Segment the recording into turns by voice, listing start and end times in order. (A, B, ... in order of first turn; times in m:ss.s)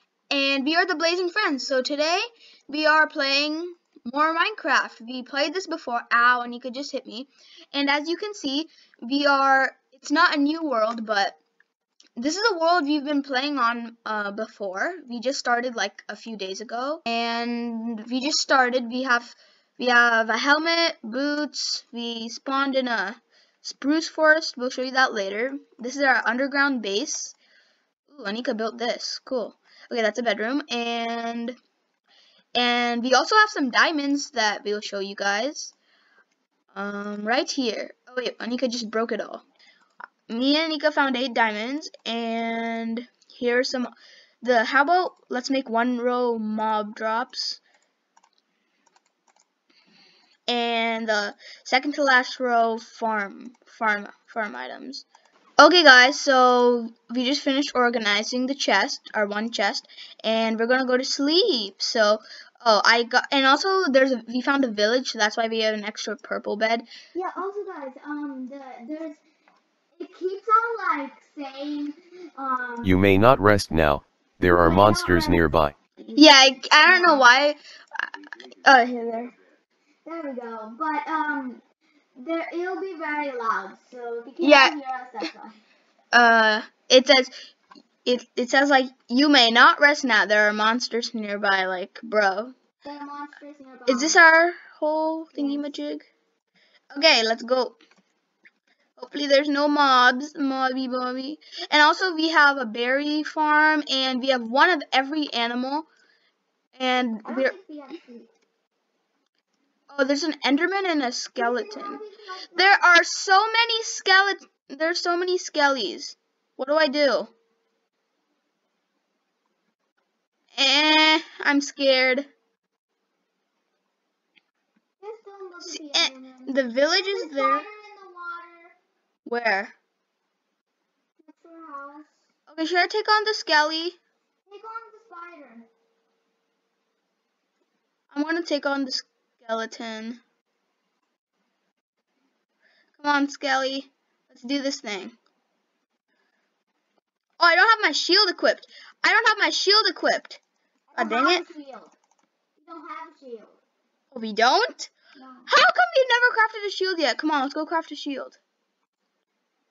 0:00.3-0:11.4 A
0:12.2-0:27.4 A
0:28.1-0:31.6 A
0:32.5-0:35.7 A
0:36.7-0:39.4 A
0:40.3-0:43.9 A
0:44.4-0:47.6 A
0:50.5-0:55.0 A
0:55.6-1:06.9 A
1:07.1-1:09.2 B
1:10.0-1:12.9 B
1:12.8-1:15.7 C
1:14.5-1:15.4 B
1:16.0-1:17.3 B
1:16.1-1:18.1 A
1:18.6-1:19.3 A
1:20.0-1:21.6 B
1:22.2-1:25.6 B
1:24.4-1:24.7 A
1:26.1-1:27.3 A
1:28.0-1:32.5 A
1:32.8-1:34.2 B
1:33.9-1:36.1 A
1:35.3-1:35.7 B
1:36.9-1:37.8 A
1:39.0-1:45.9 A
1:46.7-1:47.5 A
1:47.2-1:48.3 B
1:49.9-1:52.0 A
1:51.4-1:52.8 B
1:52.5-1:57.3 A
2:00.5-2:02.3 A
2:05.0-2:08.7 B
2:05.6-2:07.6 A
2:09.2-2:09.7 A
2:11.2-2:12.1 B
2:12.5-2:14.0 A
2:14.5-2:15.7 B
2:18.1-2:20.2 A
2:23.0-2:25.1 A
2:27.4-2:30.4 A
2:30.9-2:31.9 B
2:31.0-2:31.4 A
2:32.6-2:33.6 B
2:34.1-2:34.9 A
2:35.2-2:35.5 B
2:35.5-2:38.4 A